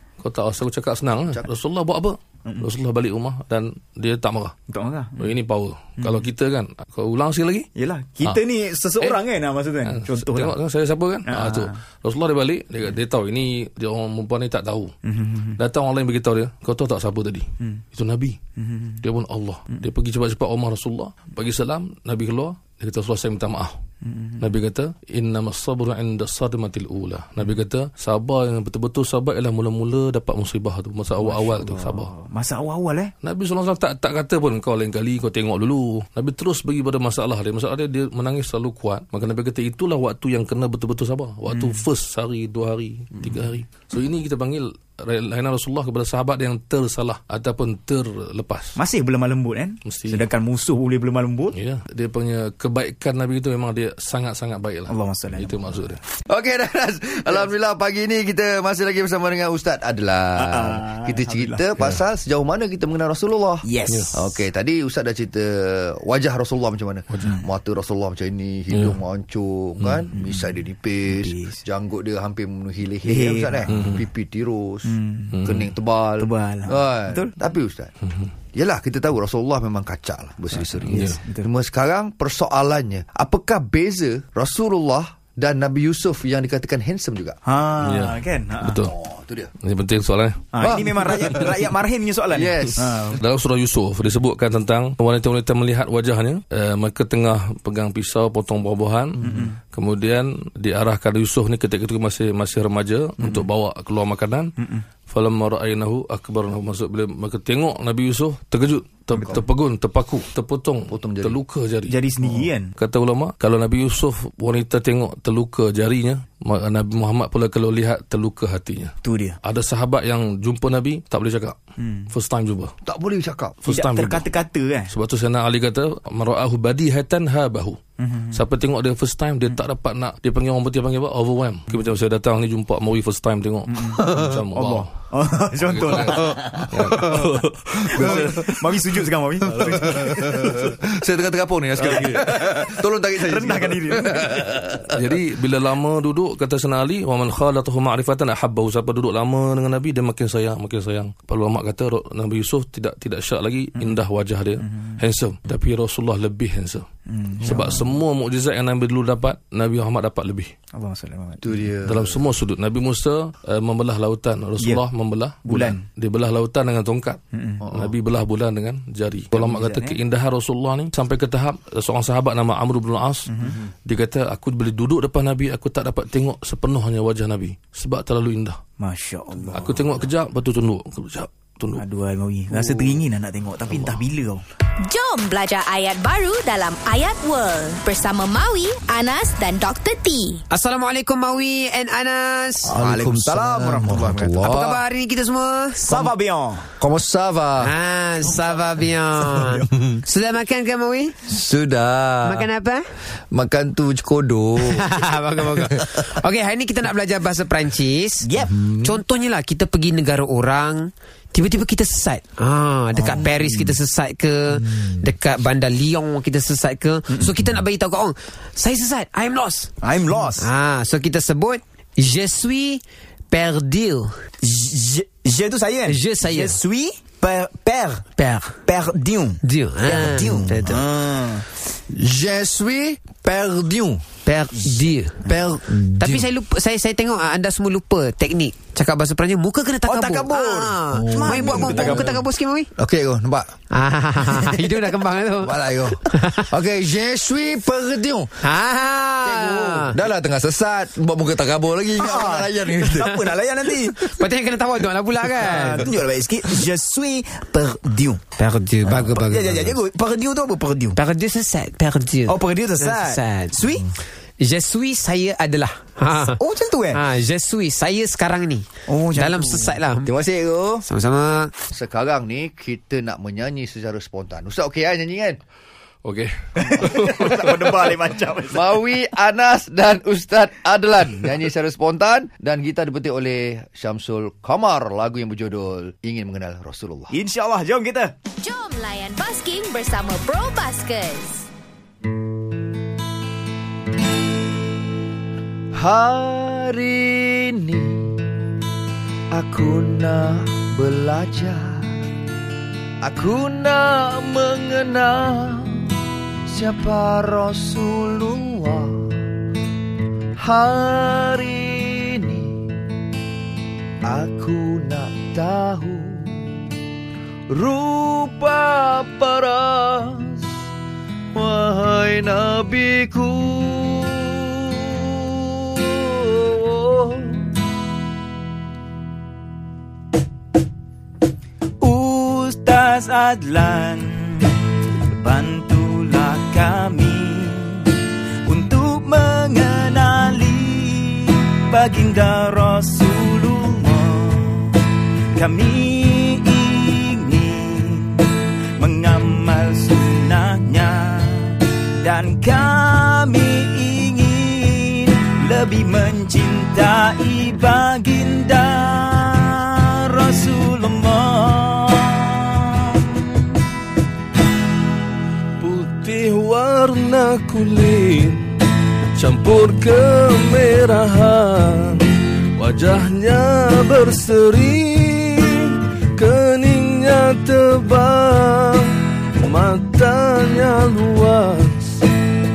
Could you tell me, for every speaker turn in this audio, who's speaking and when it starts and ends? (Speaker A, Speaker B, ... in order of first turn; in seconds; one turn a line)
Speaker A: 0.2-4.5
Speaker B: 4.7-5.4
Speaker A: 5.2-7.7
Speaker B: 6.0-6.3
Speaker B: 7.8-10.6
Speaker A: 9.8-14.9
Speaker B: 11.3-11.8
Speaker B: 15.1-15.6
Speaker A: 15.6-18.4
Speaker B: 18.6-19.0
Speaker A: 19.0-23.8
Speaker B: 24.0-24.5
Speaker A: 24.4-32.1
Speaker B: 31.2-33.1
Speaker A: 33.2-48.8
Speaker B: 41.5-41.9
Speaker B: 48.8-51.6
Speaker A: 49.9-50.3
Speaker A: 51.5-56.0
Speaker B: 54.9-55.9
Speaker C: 56.2-77.9
Speaker B: 60.4-61.6
Speaker B: 63.6-64.3
Speaker A: 63.9-64.2
Speaker A: 67.1-67.4
Speaker A: 68.7-69.0
Speaker B: 69.8-70.5
Speaker B: 71.1-71.6
Speaker B: 73.0-73.7
Speaker A: 73.7-74.0
Speaker B: 74.8-75.6
Speaker A: 75.3-75.7
Speaker B: 76.2-77.3
Speaker C: 78.5-87.4
Speaker B: 80.5-81.5
Speaker A: 80.9-81.2
Speaker B: 87.4-88.8
Speaker A: 87.8-88.9
Speaker C: 88.8-89.5
Speaker A: 89.6-90.5
Speaker B: 90.5-93.2
Speaker C: 90.6-91.6
Speaker C: 92.3-93.2
Speaker A: 93.2-104.5
Speaker B: 99.2-99.6
Speaker B: 103.2-103.5
Speaker B: 104.6-104.8
Speaker A: 105.1-121.6
Speaker B: 109.1-109.4
Speaker C: 110.9-111.4
Speaker B: 111.9-112.7
Speaker B: 119.0-119.4
Speaker B: 121.8-122.1
Speaker A: 122.1-122.7
Speaker C: 122.8-123.6
Speaker A: 123.6-124.3
Speaker B: 123.7-124.9
Speaker A: 124.9-127.8
Speaker B: 128.0-128.4
Speaker A: 128.3-134.9
Speaker B: 133.7-137.2
Speaker C: 134.0-134.3
Speaker A: 135.6-138.5
Speaker C: 136.2-137.2
Speaker B: 137.9-140.6
Speaker C: 137.9-138.3
Speaker A: 139.6-140.4
Speaker C: 139.6-144.9
Speaker B: 141.8-142.6
Speaker B: 143.2-144.3
Speaker A: 144.9-156.9
Speaker B: 154.6-154.9
Speaker B: 157.1-158.0
Speaker A: 157.4-160.5
Speaker B: 160.7-161.7
Speaker C: 161.4-162.2
Speaker A: 161.9-173.3
Speaker B: 165.4-165.8
Speaker B: 167.3-167.7
Speaker C: 167.6-167.9
Speaker B: 169.3-170.0
Speaker B: 173.3-173.6
Speaker A: 173.9-178.6
Speaker B: 178.8-180.1
Speaker A: 179.5-181.8
Speaker B: 181.8-184.4
Speaker C: 182.5-183.1
Speaker A: 183.7-184.0
Speaker D: 184.8-190.4
Speaker E: 190.5-192.8
Speaker C: 192.7-194.8
Speaker B: 192.8-194.5
Speaker E: 194.3-196.0
Speaker B: 195.8-196.7
Speaker C: 196.8-197.7
Speaker E: 197.6-201.2
Speaker B: 199.2-199.7
Speaker C: 201.3-202.5
Speaker E: 202.2-202.8
Speaker C: 203.3-206.2
Speaker E: 204.6-219.7
Speaker B: 208.2-208.8
Speaker B: 212.9-213.8
Speaker B: 217.1-217.6
Speaker B: 219.8-220.5
Speaker E: 220.4-224.1
Speaker B: 224.4-228.1
Speaker E: 225.9-226.6
Speaker E: 228.2-228.6
Speaker B: 228.7-231.4
Speaker E: 229.4-230.8
Speaker C: 231.9-234.1
Speaker E: 234.2-235.2
Speaker B: 234.5-235.6
Speaker C: 235.3-236.3
Speaker E: 235.8-242.7
Speaker B: 239.9-242.2
Speaker C: 240.9-242.2
Speaker C: 242.8-243.6
Speaker E: 243.7-246.5
Speaker C: 244.2-244.8
Speaker C: 245.4-248.4
Speaker E: 248.4-250.0
Speaker C: 249.2-253.2
Speaker B: 251.9-254.1
Speaker E: 254.1-255.9
Speaker B: 255.3-261.0
Speaker E: 258.4-259.8
Speaker E: 260.9-263.6
Speaker B: 262.3-263.9
Speaker E: 264.4-270.1
Speaker B: 266.3-267.1
Speaker B: 268.9-270.8
Speaker E: 270.9-271.5
Speaker C: 271.7-275.4
Speaker A: 276.0-277.6
Speaker B: 276.6-278.8
Speaker C: 278.5-287.2
Speaker B: 287.1-288.1
Speaker D: 288.4-291.5
Speaker C: 295.8-298.2
Speaker C: 299.3-301.9
Speaker C: 303.0-305.9
Speaker C: 306.5-309.2
Speaker C: 310.4-312.7
Speaker C: 314.1-316.4
Speaker C: 317.5-320.5
Speaker C: 321.3-327.5
Speaker B: 331.8-334.5
Speaker B: 335.1-344.8
Speaker B: 345.3-363.4
Speaker A: 365.6-368.5
Speaker A: 369.1-382.1